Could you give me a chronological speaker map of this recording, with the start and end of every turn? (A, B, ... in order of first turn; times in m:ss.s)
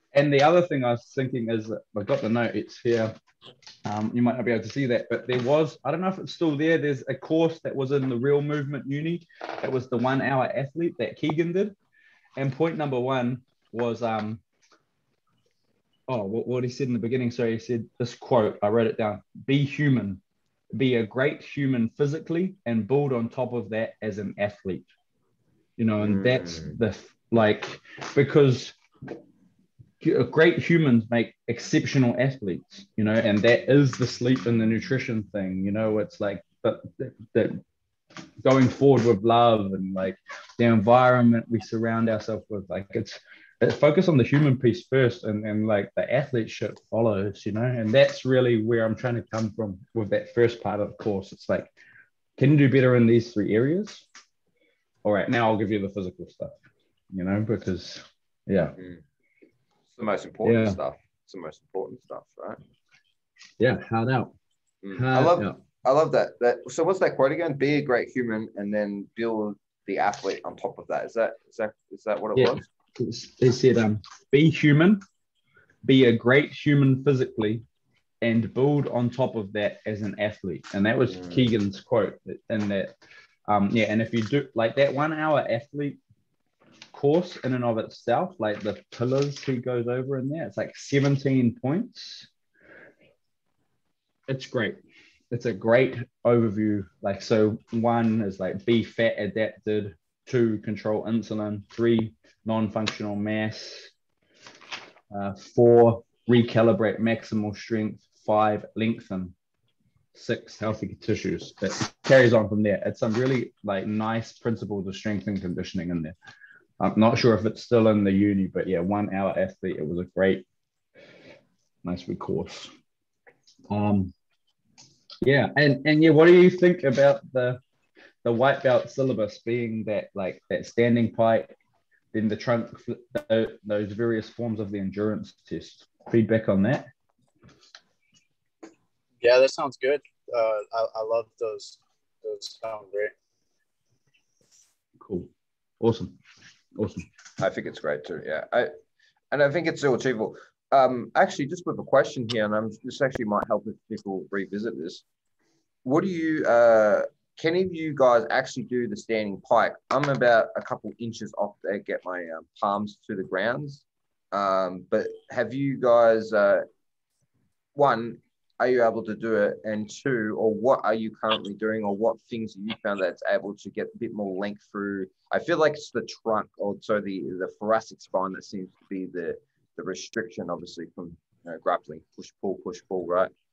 0:00.1-0:03.1 A
0:03.8-0:11.8 A
0:12.4-0:14.4 A
0:16.1-0:20.2 A
0:20.7-0:24.9 A
0:25.8-0:28.8 A
0:26.0-0:26.8 B
0:30.0-0:37.6 A
0:38.4-0:51.7 A
0:52.4-0:54.0 A
0:55.0-0:56.6 A
0:57.1-0:58.8 A
0:58.8-0:59.0 B
0:59.9-1:02.6 B
1:00.4-1:00.8 A
1:03.6-1:04.3 A
1:04.8-1:12.7 B
1:04.9-1:05.6 A
1:12.4-1:15.0 A
1:15.8-1:17.6 A
1:18.2-1:22.9 A
1:21.1-1:21.4 B
1:23.5-1:26.0 A
1:26.9-1:32.3 A
1:34.3-1:34.8 A
1:35.3-1:43.9 A
1:45.1-1:49.3 A
1:50.1-1:56.2 A
1:56.8-2:00.5 A
2:01.8-2:02.7 A
2:03.7-2:04.1 A
2:05.2-2:07.6 A
2:08.2-2:11.5 A
2:12.1-2:16.9 A
2:19.2-2:23.1 C
2:25.0-2:26.2 A
2:26.8-2:27.1 A
2:27.4-2:28.7 B
2:29.3-2:35.0 B
2:35.8-2:46.6 B
2:47.8-3:03.3 B